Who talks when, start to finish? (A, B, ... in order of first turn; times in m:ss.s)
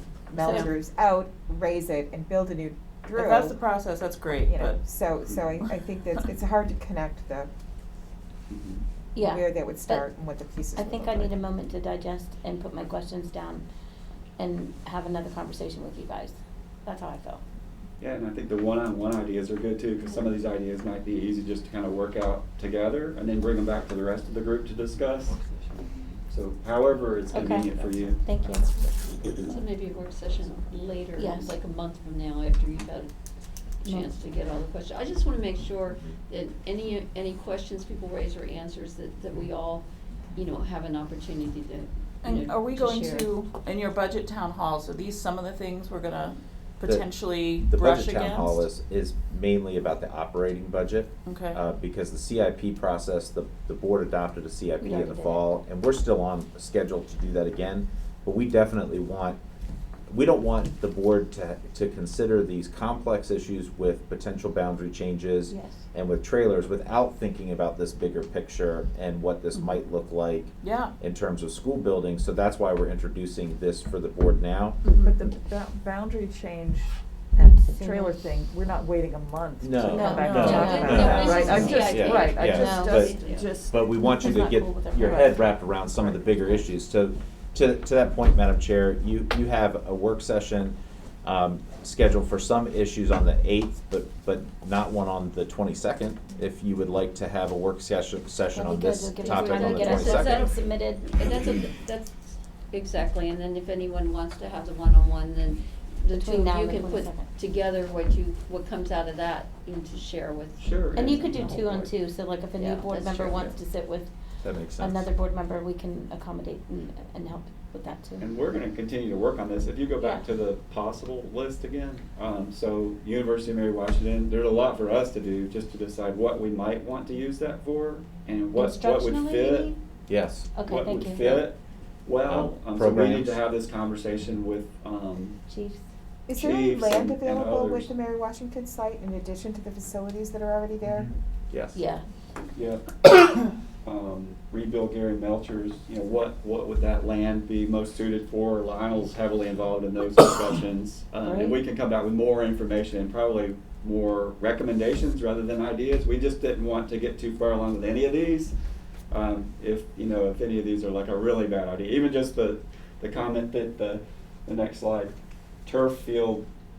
0:00.3-0:03.6 A
0:00.4-0:00.7 B
0:03.1-0:04.8 C
0:04.5-0:07.5 A
0:05.2-0:05.6 D
0:08.5-0:08.8 D
0:09.1-0:10.1 B
0:09.2-0:11.3 A
0:10.7-0:13.6 B
0:14.4-0:17.4 B
0:18.0-0:25.4 D
0:26.3-0:28.3 D
0:27.3-0:28.7 B
0:29.4-0:33.1 E
0:31.2-0:31.5 B
0:33.8-0:43.3 E
0:33.8-0:34.1 B
0:42.2-0:48.6 C
0:47.6-0:59.4 F
0:51.3-0:51.6 C
0:54.8-0:55.4 B
1:00.1-1:14.8 F
1:05.5-1:05.8 B
1:10.6-1:10.9 C
1:14.9-1:15.2 C
1:15.0-1:16.8 G
1:17.4-1:18.2 B
1:17.4-1:23.8 G
1:19.6-1:23.2 F
1:19.9-1:21.7 B
1:20.1-1:22.1 C
1:20.3-1:23.5 E
1:22.8-1:23.6 C
1:23.7-1:40.6 F
1:23.8-1:25.5 B
1:38.5-1:41.1 B
1:39.2-1:52.0 E
1:46.1-1:47.3 B
1:50.6-1:51.2 D
1:50.9-1:54.1 B
1:52.6-1:53.5 E
1:54.4-1:55.1 F
1:54.8-1:58.2 B
1:58.2-2:09.7 D
2:00.0-2:00.2 B
2:08.6-2:09.8 B
2:10.1-2:10.5 F
2:10.6-2:11.5 B
2:10.7-2:15.4 D
2:12.3-2:13.4 F
2:15.5-2:15.8 B
2:16.3-2:21.1 A
2:16.4-2:17.9 D
2:21.5-2:21.8 F
2:21.7-2:22.0 B
2:22.5-2:23.2 D
2:23.8-2:38.6 D
2:31.2-2:31.6 B
2:39.1-2:46.5 D